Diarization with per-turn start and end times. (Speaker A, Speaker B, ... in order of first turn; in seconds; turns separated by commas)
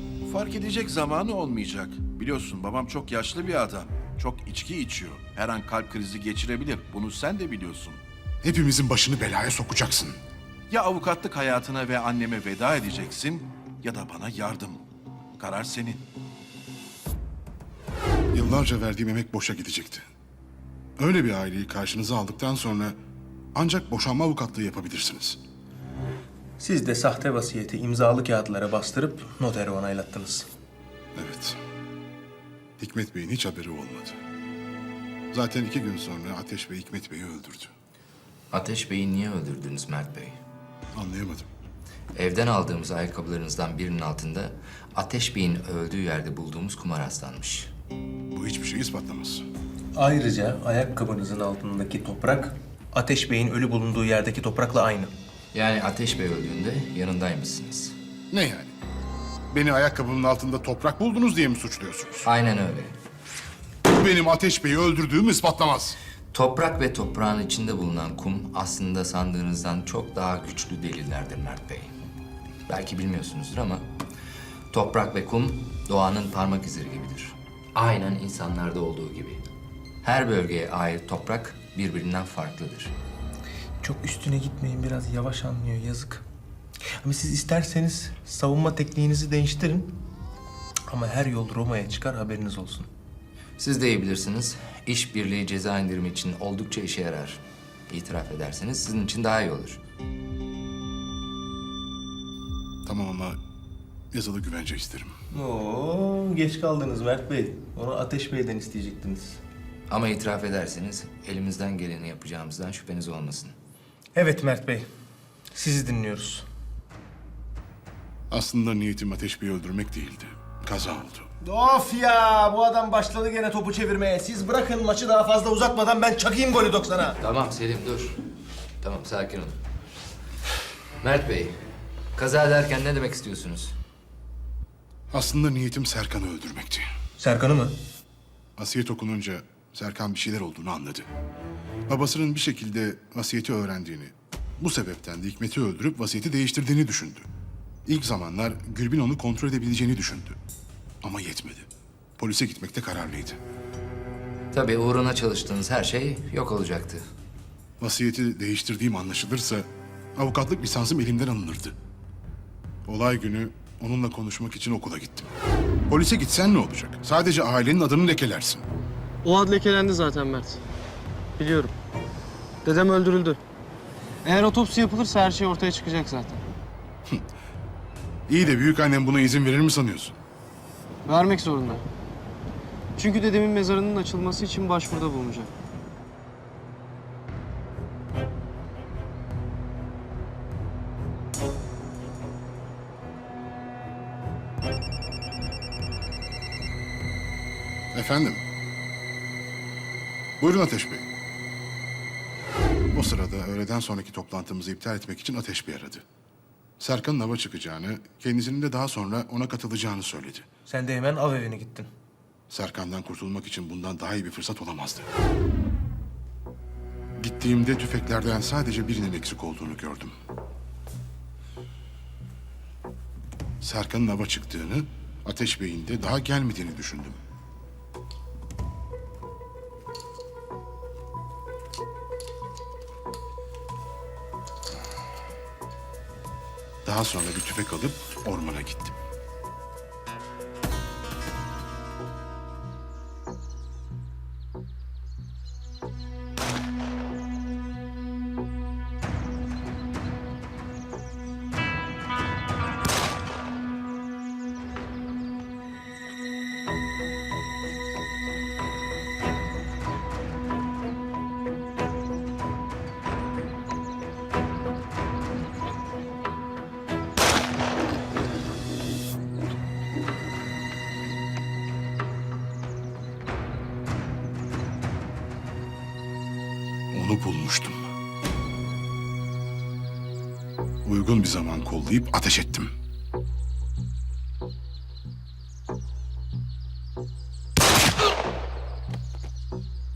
Speaker A: 0.3-8.0, Speaker B: 8.4-10.2, Speaker A: 10.7-14.8, Speaker A: 15.4-16.0, Speaker B: 18.3-20.1, Speaker B: 21.0-23.0, Speaker B: 23.6-25.4, Speaker C: 26.6-30.5, Speaker B: 31.1-31.6, Speaker B: 32.8-34.2, Speaker B: 35.3-37.7, Speaker D: 38.5-40.4, Speaker B: 40.9-41.5, Speaker D: 42.1-47.7, Speaker B: 48.3-49.5, Speaker C: 50.0-55.1, Speaker D: 55.5-58.0, Speaker B: 58.3-58.8, Speaker B: 59.5-62.3, Speaker D: 62.2-63.0, Speaker B: 63.9-66.0, Speaker D: 66.3-72.0, Speaker D: 72.7-73.9, Speaker D: 74.7-79.5, Speaker D: 80.0-83.0, Speaker C: 83.8-86.2, Speaker C: 87.0-90.0, Speaker C: 90.9-92.9, Speaker D: 93.6-99.8, Speaker B: 102.9-103.4, Speaker B: 104.1-105.1, Speaker C: 105.3-109.4, Speaker D: 109.9-113.6, Speaker C: 114.2-114.9, Speaker C: 115.5-116.5, Speaker B: 118.3-121.3, Speaker C: 121.4-127.2, Speaker D: 127.2-128.2, Speaker D: 128.8-129.6, Speaker D: 131.0-131.6, Speaker D: 132.2-133.8, Speaker B: 135.1-136.9, Speaker C: 137.2-137.8, Speaker B: 138.6-141.1, Speaker B: 141.9-147.3, Speaker B: 147.9-150.4, Speaker B: 151.0-153.4, Speaker D: 154.5-157.0, Speaker B: 157.8-161.8, Speaker B: 162.9-165.3, Speaker B: 165.9-168.7, Speaker E: 169.2-170.6, Speaker E: 171.4-171.7, Speaker E: 172.6-173.4, Speaker E: 174.2-176.4, Speaker B: 178.3-180.2, Speaker E: 181.1-181.8, Speaker E: 183.0-185.5, Speaker B: 197.9-198.4, Speaker B: 200.4-201.1, Speaker B: 202.9-206.1, Speaker B: 206.8-210.5, Speaker C: 210.7-211.9, Speaker B: 212.5-215.1, Speaker B: 217.2-220.1, Speaker B: 223.6-227.2, Speaker B: 236.8-239.0, Speaker B: 276.9-277.8, Speaker B: 280.9-282.7